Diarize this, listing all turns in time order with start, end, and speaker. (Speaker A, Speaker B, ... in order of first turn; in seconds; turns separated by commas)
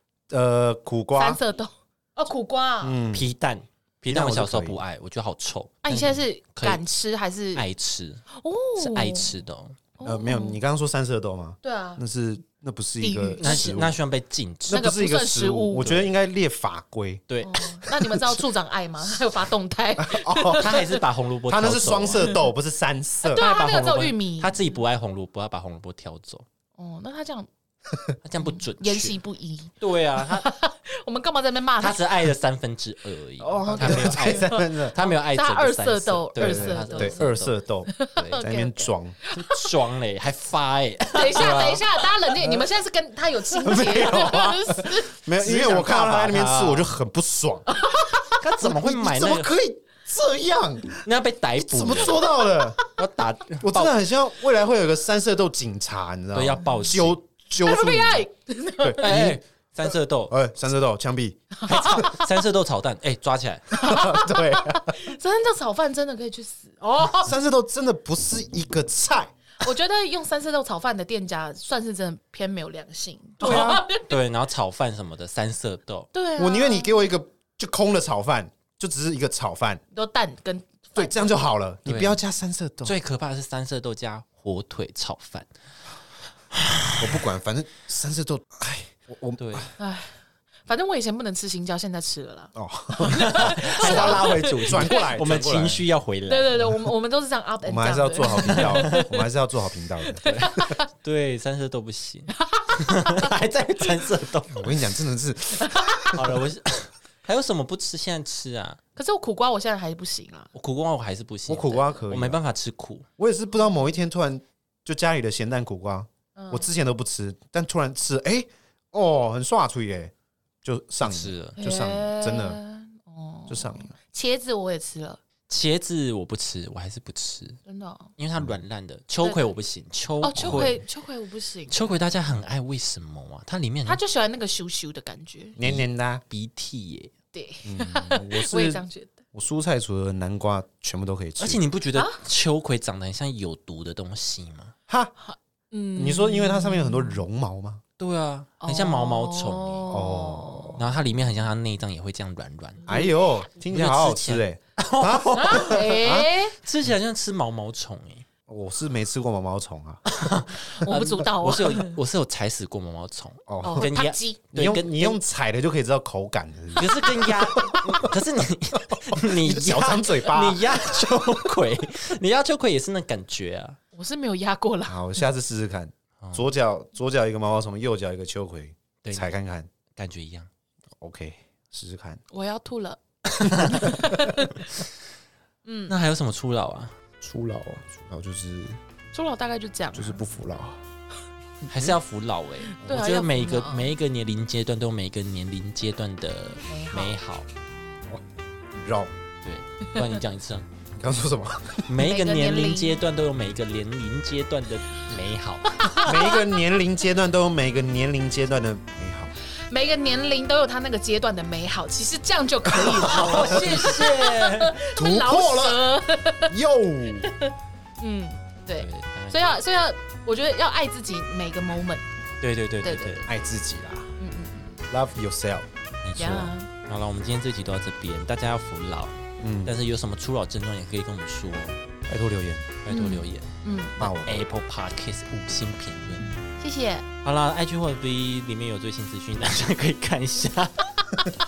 Speaker A: 0.3-1.4, Speaker B: 1.1-3.0, Speaker A: 2.8-3.3, Speaker C: 3.1-6.8, Speaker A: 4.1-4.8, Speaker B: 5.8-7.6, Speaker C: 7.5-8.2, Speaker B: 8.3-9.4, Speaker C: 8.8-9.8, Speaker B: 10.0-10.6, Speaker A: 10.0-13.9, Speaker B: 11.6-12.0, Speaker B: 13.0-13.8, Speaker C: 13.4-14.8, Speaker A: 14.7-17.2, Speaker B: 14.7-15.9, Speaker C: 15.8-16.1, Speaker C: 17.3-17.6, Speaker B: 17.4-21.0, Speaker A: 17.8-18.4, Speaker A: 20.0-20.8, Speaker C: 20.6-22.4, Speaker A: 21.5-23.4, Speaker B: 22.2-22.5, Speaker B: 23.2-24.6, Speaker C: 23.3-26.4, Speaker B: 26.8-27.5, Speaker C: 28.2-29.2, Speaker B: 28.5-32.3, Speaker C: 29.8-30.5, Speaker C: 31.8-37.5, Speaker B: 33.4-37.3, Speaker A: 33.5-34.9, Speaker A: 36.4-39.1, Speaker B: 37.9-39.7, Speaker C: 38.1-38.4, Speaker C: 39.4-42.1, Speaker B: 41.1-45.1, Speaker A: 41.4-41.8, Speaker A: 43.6-47.8, Speaker C: 45.4-46.9, Speaker B: 47.7-48.1, Speaker C: 48.3-49.5, Speaker A: 48.6-51.0, Speaker C: 51.0-52.2, Speaker A: 51.6-52.8, Speaker C: 52.9-53.9, Speaker A: 53.6-58.2, Speaker C: 56.3-57.2, Speaker B: 57.6-59.1, Speaker A: 58.8-59.4, Speaker C: 59.0-60.3, Speaker A: 60.3-61.5, Speaker B: 61.6-62.3, Speaker C: 61.6-63.7, Speaker A: 63.7-65.1, Speaker B: 63.7-67.3, Speaker A: 67.1-69.3, Speaker B: 69.6-74.2, Speaker A: 73.4-73.8, Speaker C: 73.4-76.1, Speaker B: 76.1-77.0, Speaker A: 76.4-79.8, Speaker B: 79.9-81.3, Speaker A: 81.0-82.9, Speaker C: 81.8-82.2, Speaker C: 82.8-85.5, Speaker C: 86.5-87.2, Speaker A: 87.0-89.7, Speaker C: 89.4-89.7, Speaker B: 89.8-95.1, Speaker A: 92.5-95.8, Speaker C: 93.1-96.7, Speaker B: 96.3-99.2, Speaker A: 97.6-100.8, Speaker C: 98.4-99.0, Speaker B: 100.1-100.8, Speaker C: 100.2-104.8, Speaker B: 102.3-103.3, Speaker A: 104.5-106.4, Speaker C: 106.1-108.8, Speaker B: 109.0-110.5, Speaker C: 110.5-113.0, Speaker A: 111.5-112.4, Speaker A: 113.2-120.1, Speaker B: 116.3-116.7, Speaker A: 120.6-122.6, Speaker C: 121.0-121.6, Speaker B: 121.6-125.2, Speaker A: 123.5-123.9, Speaker C: 125.5-127.6, Speaker B: 127.7-128.1, Speaker C: 128.2-130.8, Speaker B: 130.2-131.9, Speaker A: 130.3-130.8, Speaker C: 131.7-134.0, Speaker B: 133.8-135.6, Speaker A: 135.6-136.2, Speaker C: 135.6-137.1, Speaker B: 137.3-139.2, Speaker A: 137.6-141.6, Speaker C: 141.4-144.7, Speaker B: 141.9-142.2, Speaker B: 145.2-147.2, Speaker A: 145.9-147.8, Speaker C: 148.0-149.9, Speaker B: 148.6-150.9, Speaker A: 149.9-150.8, Speaker C: 150.8-153.0, Speaker B: 152.8-153.1, Speaker A: 152.9-156.3, Speaker C: 153.6-158.2, Speaker B: 155.3-156.6, Speaker A: 158.5-160.0, Speaker C: 160.1-165.2, Speaker B: 160.7-161.9, Speaker A: 163.5-163.9, Speaker B: 163.6-164.4, Speaker A: 164.5-168.1, Speaker C: 166.8-173.8, Speaker A: 168.7-170.8, Speaker B: 173.9-175.1, Speaker A: 174.9-179.7, Speaker C: 179.0-179.3, Speaker C: 179.9-180.5, Speaker A: 181.0-182.2, Speaker B: 182.3-184.6, Speaker C: 183.5-183.8, Speaker B: 185.6-185.9, Speaker C: 185.9-186.9, Speaker A: 187.2-188.8, Speaker B: 189.1-190.2, Speaker A: 189.9-190.8, Speaker C: 191.7-197.5, Speaker B: 192.7-193.9, Speaker B: 196.7-197.1, Speaker A: 198.1-199.1, Speaker C: 199.4-200.7, Speaker A: 200.9-201.9, Speaker C: 201.9-206.1, Speaker B: 202.0-203.0, Speaker B: 205.8-206.4, Speaker A: 206.0-209.3, Speaker B: 209.7-216.5, Speaker A: 212.8-214.0, Speaker C: 213.0-214.8, Speaker A: 214.9-215.8, Speaker A: 216.5-217.3, Speaker B: 217.2-222.0, Speaker C: 218.8-219.6, Speaker C: 222.4-223.3, Speaker B: 222.8-223.2, Speaker A: 223.2-224.1, Speaker B: 224.2-224.8, Speaker A: 224.9-225.7, Speaker C: 226.0-231.8, Speaker B: 226.2-226.7, Speaker A: 229.4-229.7, Speaker A: 232.1-232.8, Speaker C: 232.8-233.5, Speaker B: 232.9-234.1, Speaker A: 234.0-234.4, Speaker C: 234.0-236.4, Speaker B: 236.6-237.1, Speaker C: 237.2-241.3